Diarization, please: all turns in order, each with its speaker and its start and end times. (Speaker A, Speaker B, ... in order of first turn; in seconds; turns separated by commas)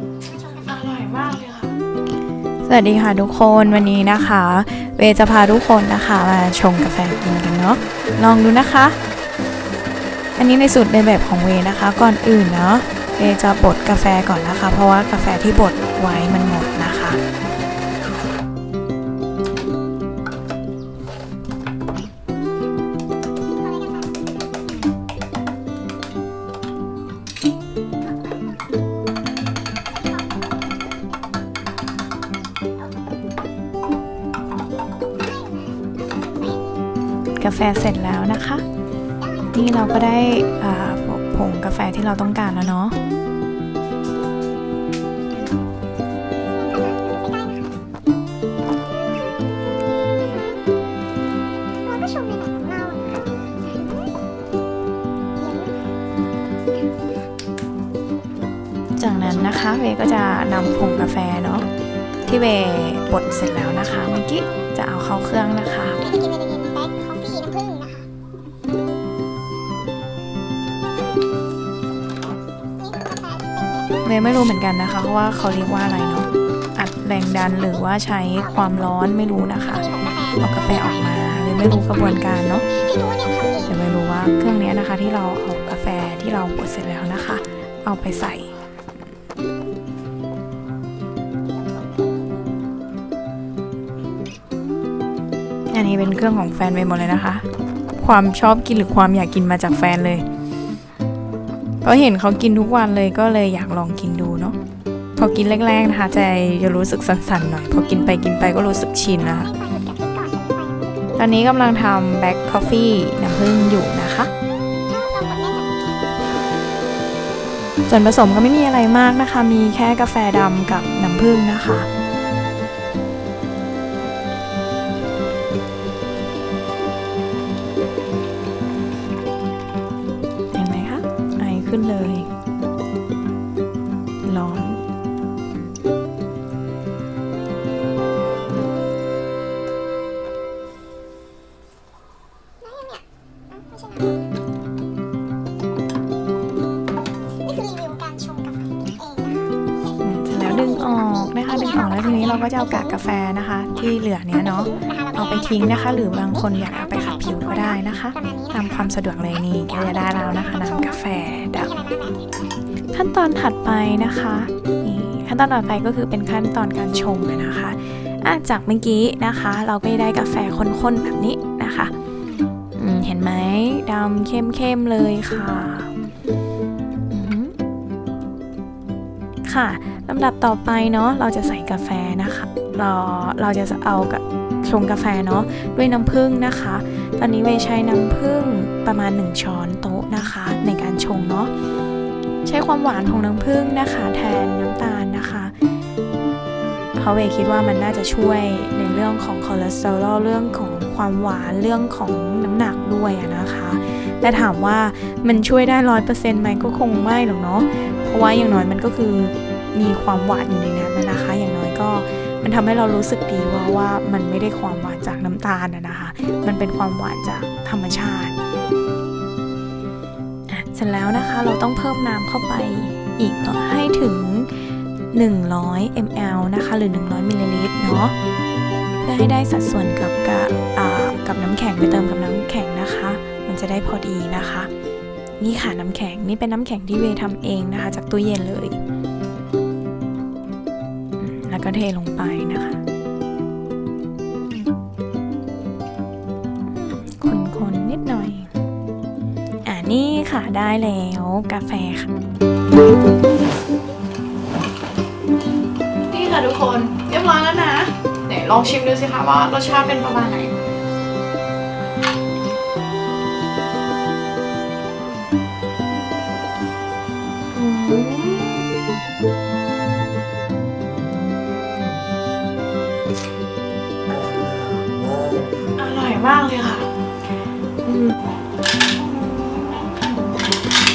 Speaker A: 0.6-1.7, Speaker A: 2.6-9.0, Speaker A: 10.4-17.2, Speaker A: 37.4-38.6, Speaker A: 39.5-43.0, Speaker B: 46.7-47.5, Speaker B: 51.9-53.4, Speaker A: 59.0-61.7, Speaker A: 62.3-66.1, Speaker B: 66.2-68.0, Speaker B: 73.0-73.7, Speaker A: 74.0-82.7, Speaker B: 83.0-83.6, Speaker A: 83.6-88.5, Speaker A: 95.7-97.5, Speaker A: 98.0-100.2, Speaker A: 101.8-104.6, Speaker A: 105.2-109.5, Speaker B: 109.5-111.1, Speaker A: 111.2-114.3, Speaker B: 115.0-115.8, Speaker A: 117.9-121.9, Speaker A: 130.5-132.3, Speaker A: 134.2-134.8, Speaker B: 143.7-144.1, Speaker B: 147.5-149.4, Speaker A: 150.0-161.8, Speaker B: 161.9-162.2, Speaker A: 162.9-171.9, Speaker A: 172.8-175.9, Speaker A: 177.1-177.6, Speaker A: 179.4-191.5, Speaker A: 192.4-195.5, Speaker A: 197.0-218.4, Speaker A: 220.5-228.1, Speaker A: 229.0-234.7, Speaker A: 235.4-238.8, Speaker A: 241.2-242.8, Speaker A: 246.7-248.5, Speaker A: 249.7-252.1, Speaker A: 256.1-260.5, Speaker A: 267.5-268.7, Speaker A: 275.8-276.9, Speaker A: 277.9-278.2, Speaker A: 278.9-280.3